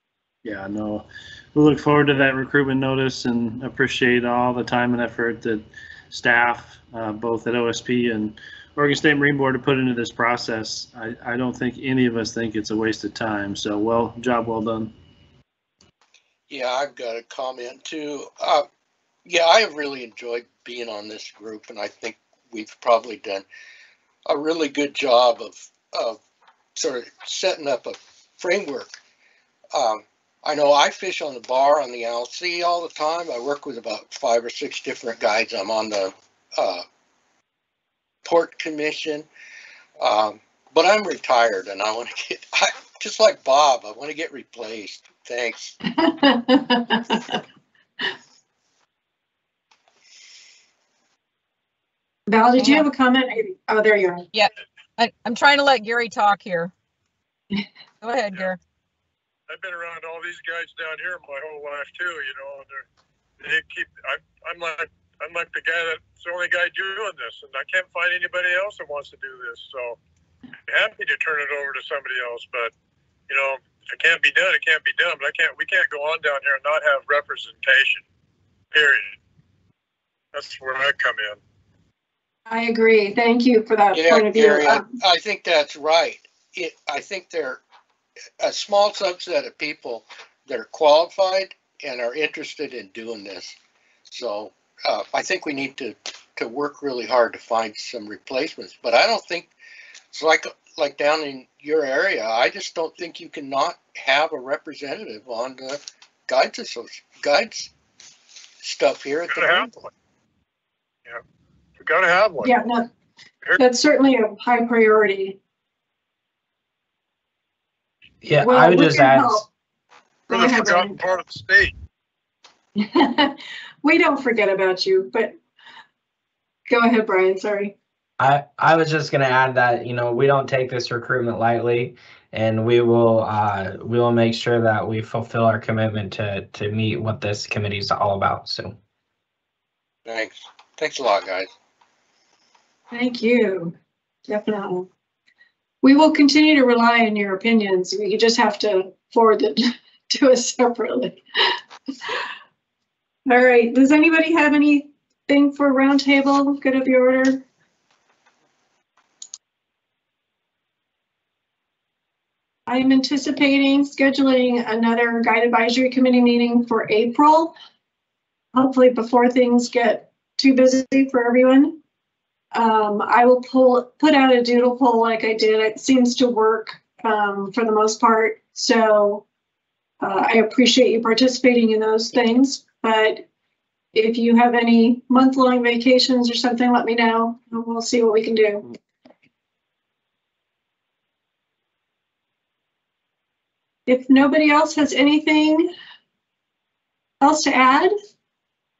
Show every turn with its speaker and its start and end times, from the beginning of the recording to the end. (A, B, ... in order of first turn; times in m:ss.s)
0:00.4-0:14.9 A
0:16.5-0:18.6 B
0:19.2-0:23.4 B
0:24.2-0:26.2 B
0:26.7-0:29.0 B
0:29.7-0:36.8 B
0:38.2-0:39.3 B
0:40.0-0:45.7 B
0:45.9-0:47.4 C
0:52.3-0:54.2 C
0:52.6-0:52.8 D
0:54.3-0:56.7 D
0:58.0-0:58.6 D
0:59.5-1:02.8 E
1:03.4-1:10.0 E
1:10.7-1:12.7 E
1:13.3-1:18.0 E
1:18.7-1:19.2 E
1:20.3-1:21.4 E
1:22.5-1:24.9 C
1:23.9-1:27.6 B
1:28.4-1:33.6 B
1:34.1-1:39.5 B
1:40.1-1:47.7 B
1:48.6-1:49.8 B
1:49.3-1:49.9 E
1:51.8-1:52.5 E
1:52.4-1:52.8 C
1:53.6-1:55.4 C
1:58.2-1:59.4 F
1:58.4-1:59.5 C
2:00.3-2:01.0 C
2:00.3-2:01.7 E
2:02.8-2:05.3 C
2:06.7-2:07.7 C
2:08.2-2:18.7 F
2:20.0-2:21.5 B
2:22.9-2:23.7 C
2:24.3-2:24.9 C
2:25.8-2:31.5 C
2:33.3-2:37.4 C
2:42.7-2:47.5 C
2:48.5-2:51.8 C
2:52.5-2:59.2 C
3:00.0-3:03.2 C
3:03.9-3:08.6 C
3:13.9-3:15.7 C
3:17.2-3:17.9 C